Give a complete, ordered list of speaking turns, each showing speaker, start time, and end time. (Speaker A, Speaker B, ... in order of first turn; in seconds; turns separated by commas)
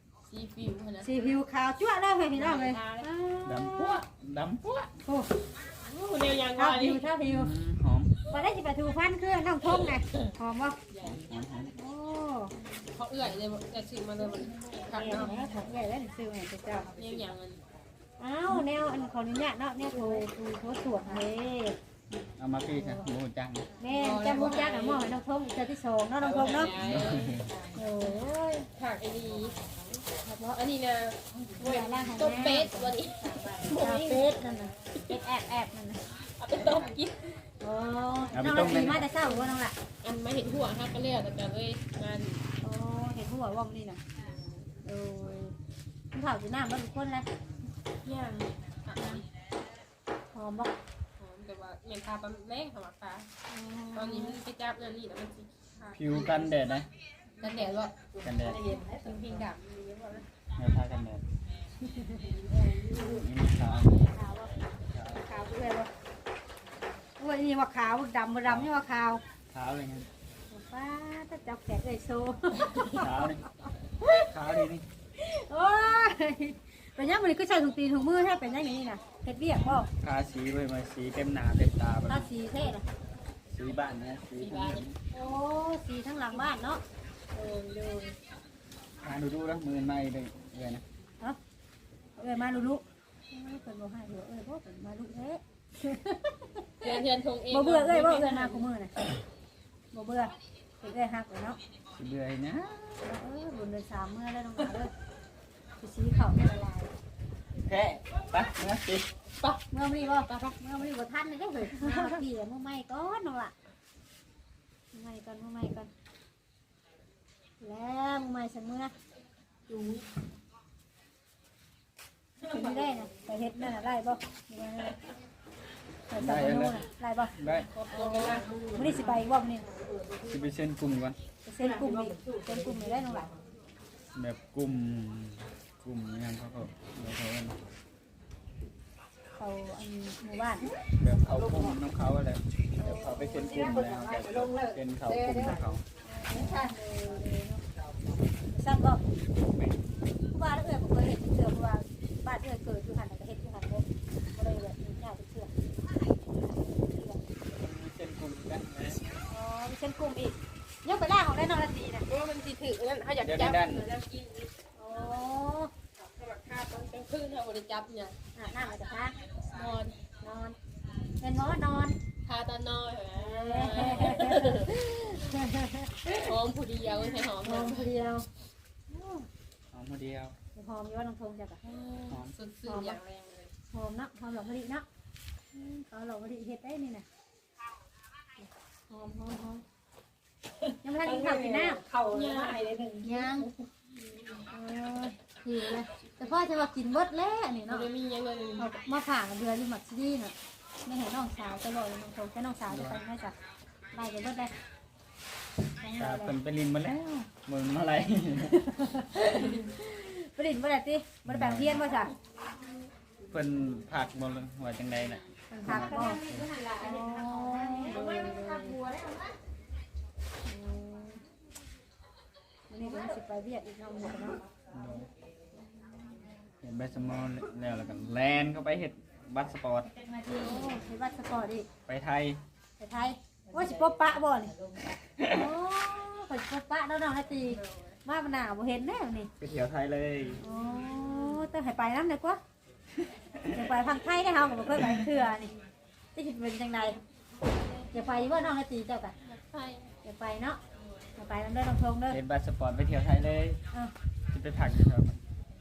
Speaker A: 0.3-1.1, Speaker B: 1.0-4.0, Speaker A: 2.3-3.1, Speaker C: 3.4-4.9, Speaker B: 5.0-5.3, Speaker A: 5.8-7.1, Speaker B: 6.5-7.5, Speaker C: 7.3-8.2, Speaker B: 8.3-10.8, Speaker A: 10.9-11.2, Speaker C: 11.0-11.7, Speaker B: 11.7-12.5, Speaker A: 12.8-15.4, Speaker B: 14.9-16.9, Speaker A: 16.9-17.6, Speaker B: 18.2-21.8, Speaker C: 22.4-23.7, Speaker B: 22.8-23.0, Speaker B: 23.8-26.7, Speaker A: 23.9-25.2, Speaker A: 26.2-27.5, Speaker C: 26.7-27.5, Speaker B: 27.7-28.7, Speaker A: 28.7-29.6, Speaker B: 30.2-30.6, Speaker A: 30.4-34.3, Speaker B: 31.6-32.9, Speaker B: 33.7-36.0, Speaker A: 36.4-37.4, Speaker B: 37.6-39.7, Speaker C: 38.3-39.1, Speaker A: 40.0-42.4, Speaker B: 42.6-44.0, Speaker B: 44.8-45.5, Speaker B: 46.1-47.2, Speaker A: 48.0-49.2, Speaker B: 49.0-49.2, Speaker B: 50.3-50.7, Speaker A: 51.2-53.3, Speaker B: 53.5-54.4, Speaker A: 53.9-56.5, Speaker C: 55.9-56.9, Speaker A: 57.4-60.2, Speaker C: 58.2-58.6, Speaker D: 58.7-59.2, Speaker C: 60.6-61.2, Speaker B: 61.8-62.3, Speaker C: 62.9-64.1, Speaker B: 64.1-64.5, Speaker C: 64.9-65.2, Speaker B: 65.2-65.9, Speaker B: 67.2-69.2, Speaker C: 69.5-70.1, Speaker B: 70.5-73.1, Speaker C: 72.9-73.4, Speaker C: 74.1-74.8, Speaker B: 75.2-79.9, Speaker C: 80.0-82.3, Speaker B: 82.1-82.8, Speaker C: 83.5-85.0, Speaker A: 84.4-84.8, Speaker B: 85.1-86.8, Speaker B: 87.3-88.2, Speaker C: 89.0-90.8, Speaker B: 92.2-98.9, Speaker A: 96.8-98.7, Speaker B: 99.9-101.6, Speaker C: 101.9-103.1, Speaker B: 103.0-104.9, Speaker B: 105.8-106.9, Speaker C: 107.6-109.1, Speaker B: 109.7-113.5, Speaker A: 110.3-110.5, Speaker A: 111.6-112.2, Speaker B: 114.9-115.9, Speaker B: 117.6-118.9, Speaker A: 119.7-120.0, Speaker B: 122.5-124.9, Speaker B: 126.1-127.3, Speaker C: 126.1-126.8, Speaker C: 127.4-127.7, Speaker A: 127.7-128.9, Speaker D: 128.1-129.0, Speaker B: 128.2-129.7, Speaker D: 129.9-130.2, Speaker C: 130.2-131.2, Speaker B: 131.4-133.3, Speaker D: 131.6-133.1, Speaker C: 134.1-137.6, Speaker B: 139.4-140.7, Speaker C: 140.9-145.8, Speaker D: 141.3-141.7, Speaker B: 142.8-143.7, Speaker D: 143.5-145.6, Speaker B: 146.0-147.6, Speaker D: 146.4-146.7, Speaker B: 148.5-149.0, Speaker C: 149.5-149.8, Speaker B: 150.3-155.5, Speaker B: 156.5-157.2, Speaker C: 157.5-159.0, Speaker B: 159.2-162.1, Speaker A: 162.1-164.5, Speaker C: 163.2-163.9, Speaker B: 164.8-165.7, Speaker A: 166.0-168.1, Speaker B: 168.3-169.2, Speaker A: 169.5-170.0, Speaker B: 170.2-170.6, Speaker B: 171.2-172.0, Speaker A: 172.2-174.7, Speaker B: 173.2-176.2, Speaker A: 176.2-177.9, Speaker B: 177.4-178.2, Speaker B: 178.9-179.2, Speaker C: 179.7-180.3, Speaker B: 180.5-181.6, Speaker A: 181.6-183.5, Speaker B: 182.7-183.0, Speaker B: 183.7-184.8, Speaker B: 185.5-187.0, Speaker B: 188.9-189.6, Speaker B: 190.8-191.8, Speaker D: 191.0-193.1, Speaker A: 192.1-192.6, Speaker B: 193.0-193.5, Speaker A: 193.9-194.5, Speaker B: 194.5-197.9, Speaker A: 197.7-198.7, Speaker B: 198.6-200.3, Speaker B: 200.8-203.3, Speaker C: 202.7-203.0, Speaker B: 203.9-204.5, Speaker B: 205.8-206.3, Speaker C: 205.9-209.3, Speaker B: 208.8-212.1, Speaker C: 211.2-211.8, Speaker C: 213.3-216.5, Speaker B: 215.5-216.2, Speaker D: 215.7-219.3, Speaker B: 216.8-218.0, Speaker A: 217.9-218.8, Speaker B: 220.4-221.2, Speaker B: 222.7-224.4, Speaker C: 224.7-225.1, Speaker C: 226.6-229.9, Speaker D: 230.1-230.5, Speaker B: 230.3-231.7, Speaker C: 231.9-232.4, Speaker B: 232.8-234.5, Speaker C: 235.2-235.5, Speaker B: 235.3-239.3, Speaker C: 239.4-240.4, Speaker B: 240.4-242.4, Speaker A: 240.5-241.4, Speaker C: 243.1-243.7, Speaker B: 243.5-245.5, Speaker B: 246.1-247.0, Speaker A: 247.7-248.3, Speaker B: 247.9-249.1, Speaker A: 249.2-249.9, Speaker B: 250.0-250.6, Speaker B: 251.2-252.2, Speaker C: 252.1-253.6, Speaker C: 254.3-255.2